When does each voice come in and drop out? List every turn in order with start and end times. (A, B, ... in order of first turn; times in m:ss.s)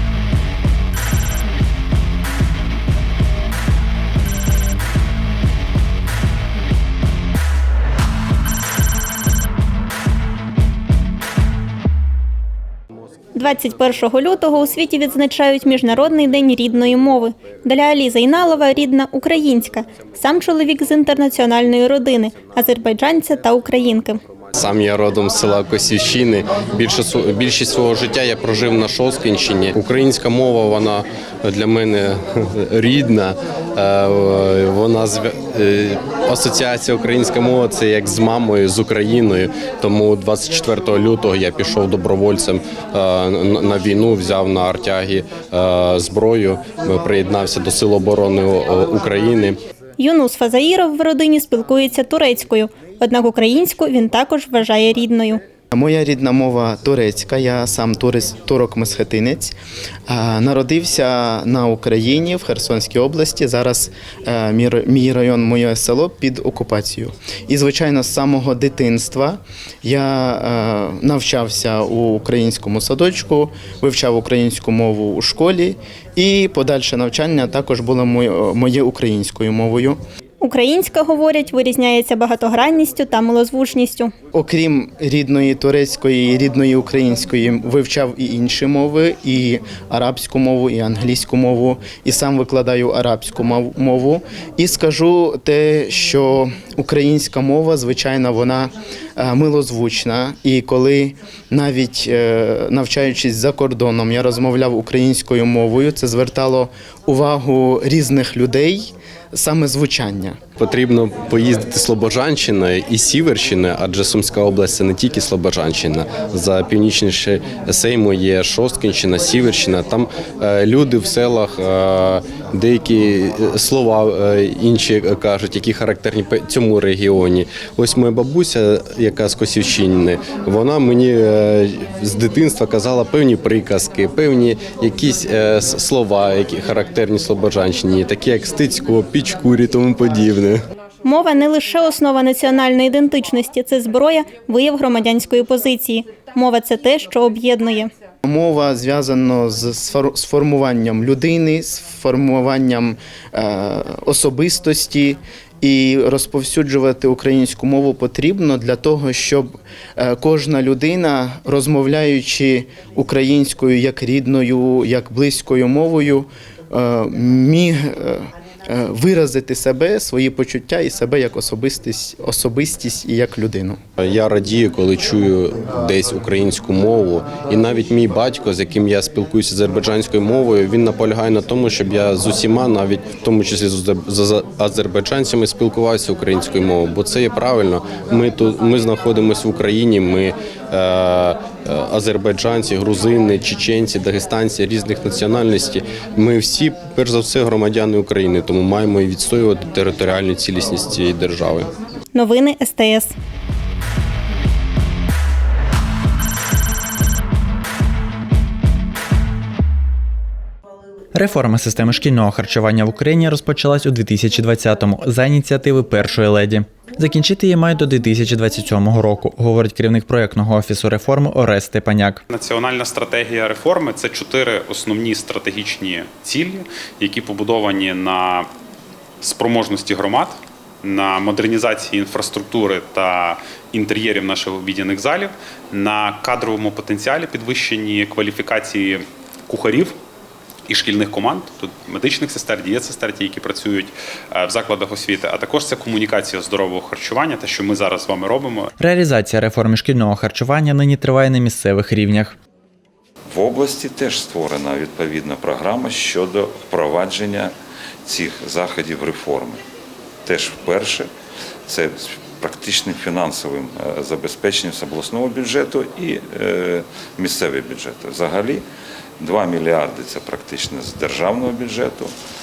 0:13.4-0:24.2 A
0:24.5-0:49.6 B
0:50.0-0:55.4 A
0:55.7-0:59.6 C
1:00.1-1:20.0 C
1:20.4-1:24.1 A
1:24.3-1:50.4 C
1:50.6-2:20.6 B
2:21.0-2:27.9 A
2:28.2-2:53.8 C
2:54.0-3:21.7 B
3:22.1-3:23.1 A
3:31.1-3:42.2 D
3:42.3-3:48.5 E
3:49.2-4:00.0 E
4:00.7-4:08.7 E
4:08.8-4:12.4 D
4:13.3-4:17.5 F
4:18.1-4:19.6 F
4:20.2-4:21.1 F
4:21.7-4:28.6 F
4:29.2-4:32.1 F